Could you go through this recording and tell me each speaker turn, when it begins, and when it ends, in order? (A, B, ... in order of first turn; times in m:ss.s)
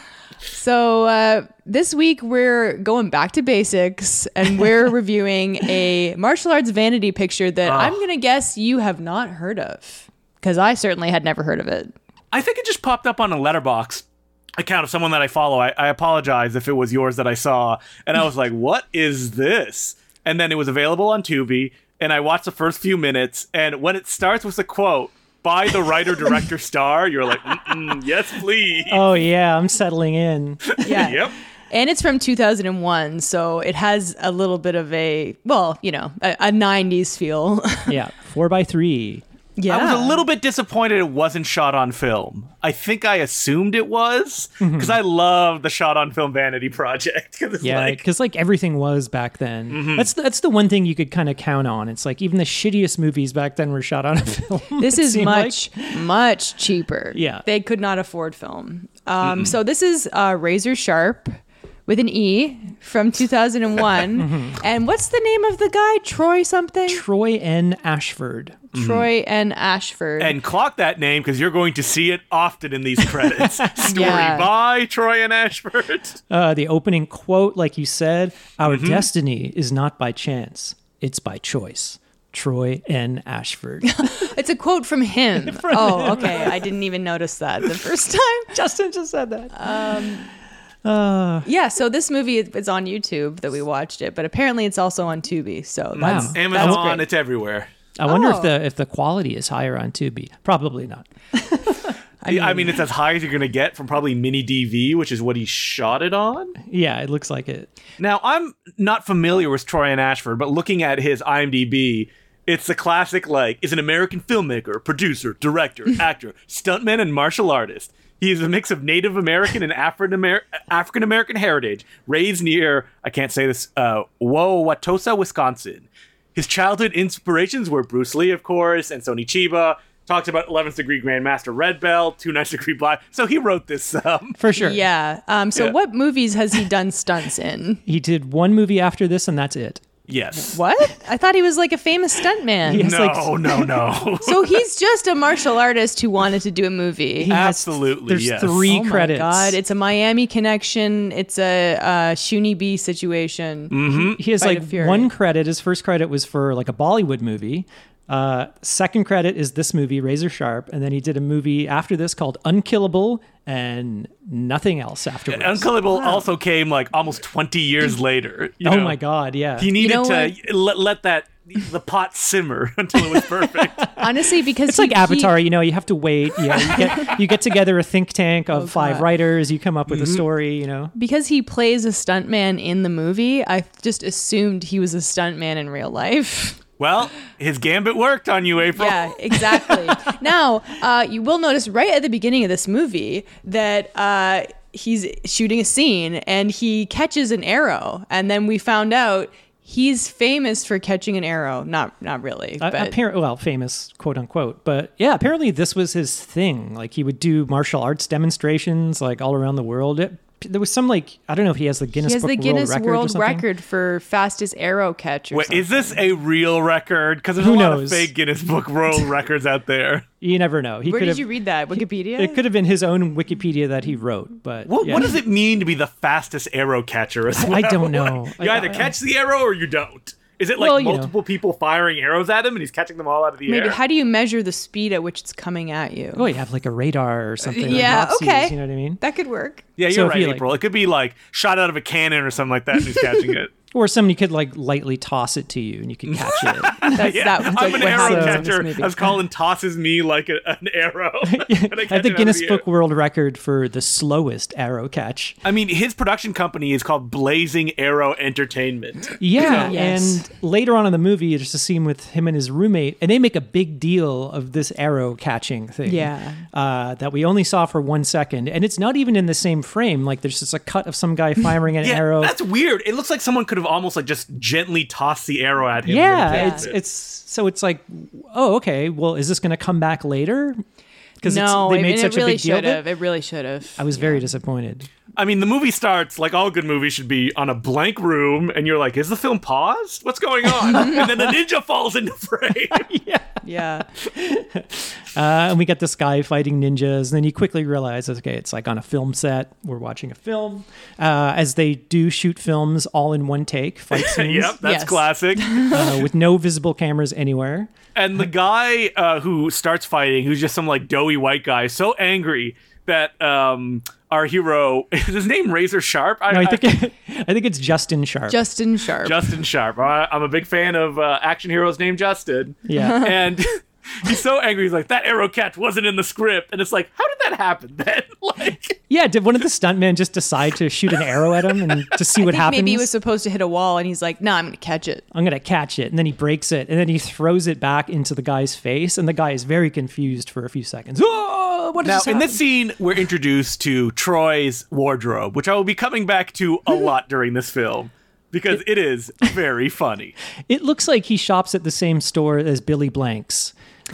0:00.5-0:11.9 A
0:07.6-0:08.0 B
0:12.3-0:14.0 B
0:14.6-0:29.0 B
0:28.9-0:31.2 C
0:30.7-0:31.4 B
0:30.8-0:38.0 A
0:37.9-0:39.2 C
0:39.6-0:40.2 A
0:39.7-0:48.0 B
0:44.6-0:45.0 C
0:47.6-0:56.0 C
0:49.7-0:50.1 B
0:54.8-1:07.0 A
0:57.1-0:57.4 C
0:59.2-0:59.6 B
1:04.2-1:04.6 C
1:06.9-1:08.6 C
1:08.7-1:10.4 A
1:08.8-1:09.1 B
1:10.2-1:16.2 B
1:13.2-1:14.1 C
1:13.8-1:14.5 A
1:16.3-1:24.3 C
1:18.7-1:19.1 B
1:23.8-1:28.6 A
1:25.4-1:26.7 C
1:28.5-1:30.1 C
1:29.5-1:30.3 A
1:30.8-1:31.5 C
1:31.4-1:37.1 A
1:36.0-1:37.7 B
1:36.0-1:36.8 C
1:38.0-1:41.9 C
1:38.1-1:38.5 A
1:42.2-1:42.8 A
1:42.3-1:46.6 B
1:46.6-1:47.7 C
1:48.0-2:14.4 B
2:14.4-2:14.8 C
2:14.6-2:17.8 A
2:17.9-2:19.9 C
2:20.1-2:20.6 B
2:20.5-2:22.9 A
2:22.6-2:23.6 C
2:22.8-2:24.6 B
2:24.2-2:27.3 A
2:27.2-2:29.6 C
2:27.3-2:28.7 B
2:28.7-2:35.1 A
2:33.7-2:34.2 B
2:34.1-2:45.7 C
2:45.3-2:49.0 B
2:46.0-2:46.2 A
2:48.6-2:49.8 C
2:49.6-2:54.0 B
2:49.8-2:50.4 A
2:53.1-2:54.1 C
2:54.0-2:55.4 A
2:54.6-3:00.9 C
2:56.6-2:57.2 A
2:58.5-2:59.1 A
2:59.9-3:00.2 B
3:00.9-3:06.6 A
3:06.8-3:09.8 B
3:08.7-3:23.0 A
3:22.6-3:33.5 C
3:32.0-3:36.0 A
3:35.3-3:40.0 B
3:37.4-3:38.1 C
3:40.2-3:45.2 C
3:40.8-3:42.4 A
3:44.7-3:53.8 B
3:47.4-3:49.0 C
3:50.6-3:51.1 C
3:53.5-3:56.3 A
3:56.2-3:59.0 C
3:57.5-3:59.6 A
3:59.8-4:03.5 B
3:59.9-4:00.5 C
4:03.7-4:08.5 C
4:06.1-4:12.6 B
4:06.9-4:09.1 A
4:11.2-4:15.4 C
4:15.4-4:19.8 B
4:19.2-4:32.3 C
4:19.4-4:20.2 A
4:25.9-4:26.4 A
4:31.8-4:36.8 B
4:35.8-4:40.6 C
4:36.3-4:36.7 A
4:41.2-4:42.8 C
4:41.2-4:44.2 A
4:43.8-4:44.9 C
4:45.2-4:52.9 B
4:52.8-4:53.4 C
4:53.4-4:53.9 A
4:54.0-5:04.6 C
5:04.0-5:05.6 B
5:04.6-5:06.0 A
5:05.6-5:07.7 C
5:08.0-5:16.7 B
5:16.3-5:18.4 C
5:18.3-5:19.4 A
5:19.0-5:28.8 B
5:22.7-5:23.0 C
5:22.8-5:23.2 A
5:28.9-5:32.9 C
5:32.2-5:35.0 A
5:35.1-5:42.4 C
5:41.8-5:50.2 B
5:50.5-5:53.5 C